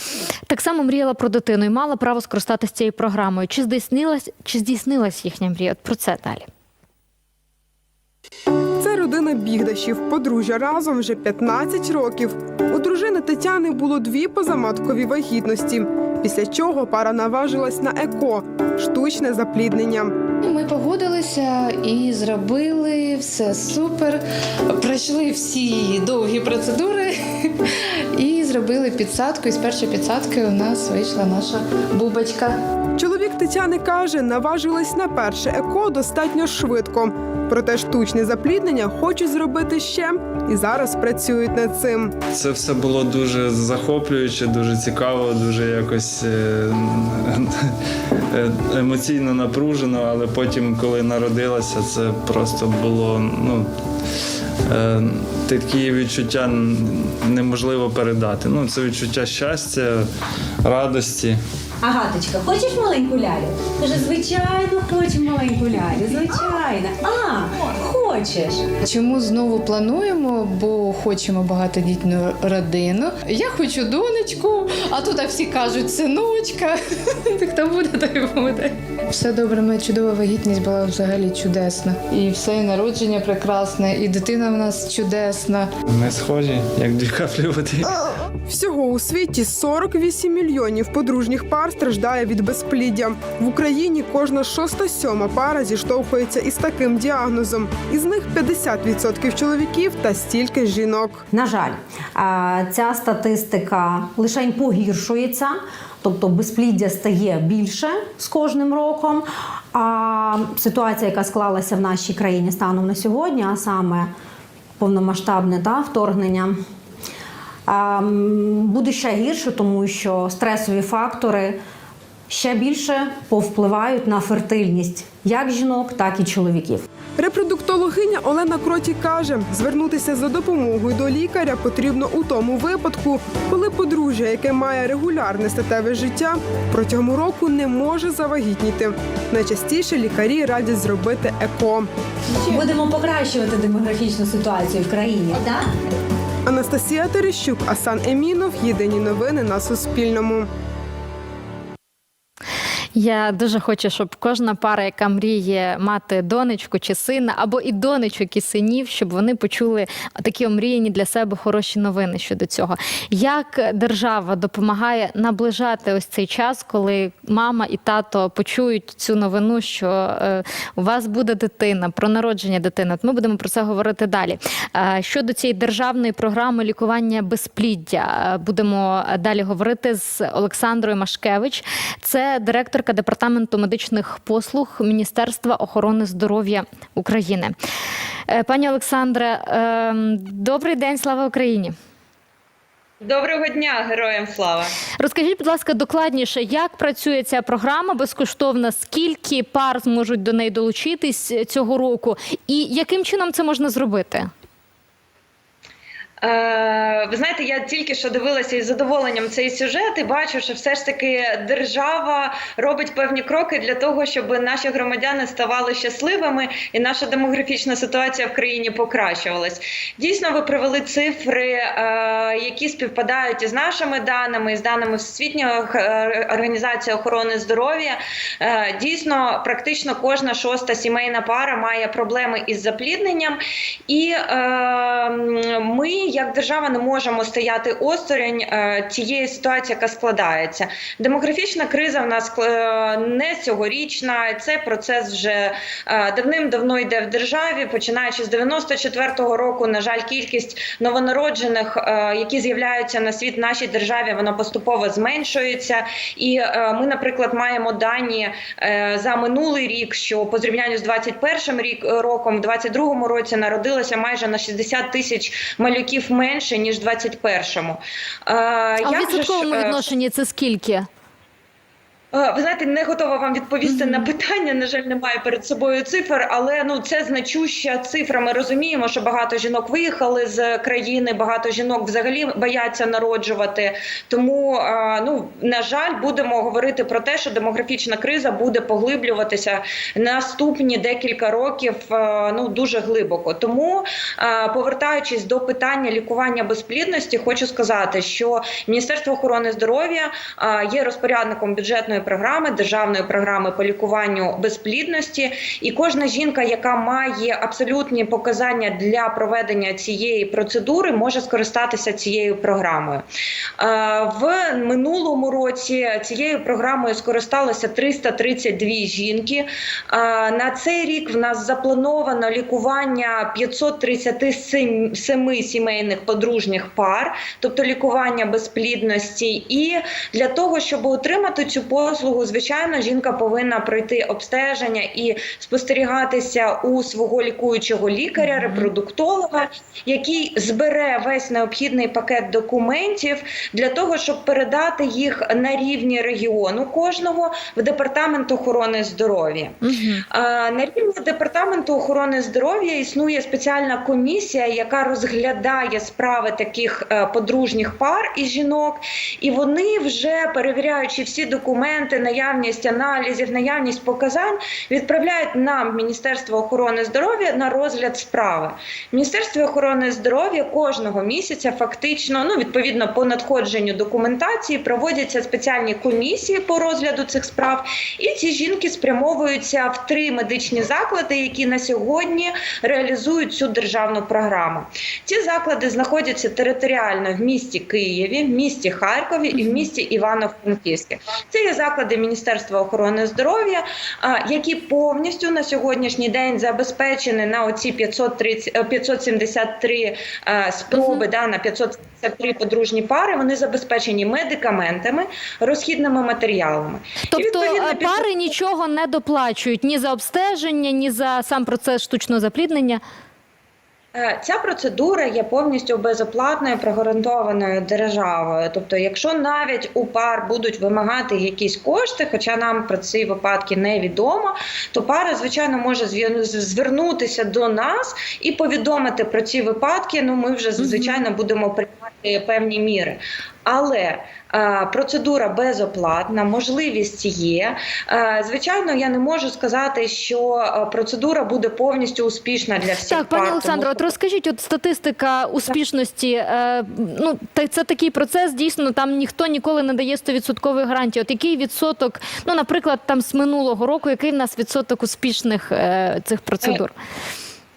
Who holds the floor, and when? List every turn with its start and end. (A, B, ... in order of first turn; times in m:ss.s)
0:00.5-0:06.5 A
0:08.8-0:20.2 B
0:20.4-0:32.6 C
0:33.0-0:42.1 B
0:42.3-0:47.5 D
0:48.3-0:53.7 D
0:54.7-1:00.0 D
1:00.6-1:01.4 D
1:01.8-1:08.6 E
1:08.8-1:25.7 C
1:25.9-1:27.9 D
1:28.5-1:41.2 B
1:41.3-1:54.1 E
1:54.8-1:56.6 E
1:57.7-2:01.6 E
2:02.3-2:06.8 E
2:07.2-2:21.9 B
2:22.5-2:25.6 E
2:26.5-2:30.5 B
2:33.0-3:07.6 A
3:08.3-3:11.7 A
3:13.0-3:14.7 F
3:15.0-3:24.3 A
3:26.2-4:29.9 F
4:28.8-4:30.9 A
4:32.1-5:13.0 F
4:33.7-4:34.1 A
5:13.6-5:49.6 F
5:38.2-5:38.7 A
5:49.6-5:50.0 A
5:50.1-6:48.1 F
6:40.7-6:41.0 A
6:47.1-6:52.8 A
6:54.0-7:23.9 F
7:10.6-7:11.0 A
7:22.9-7:36.7 A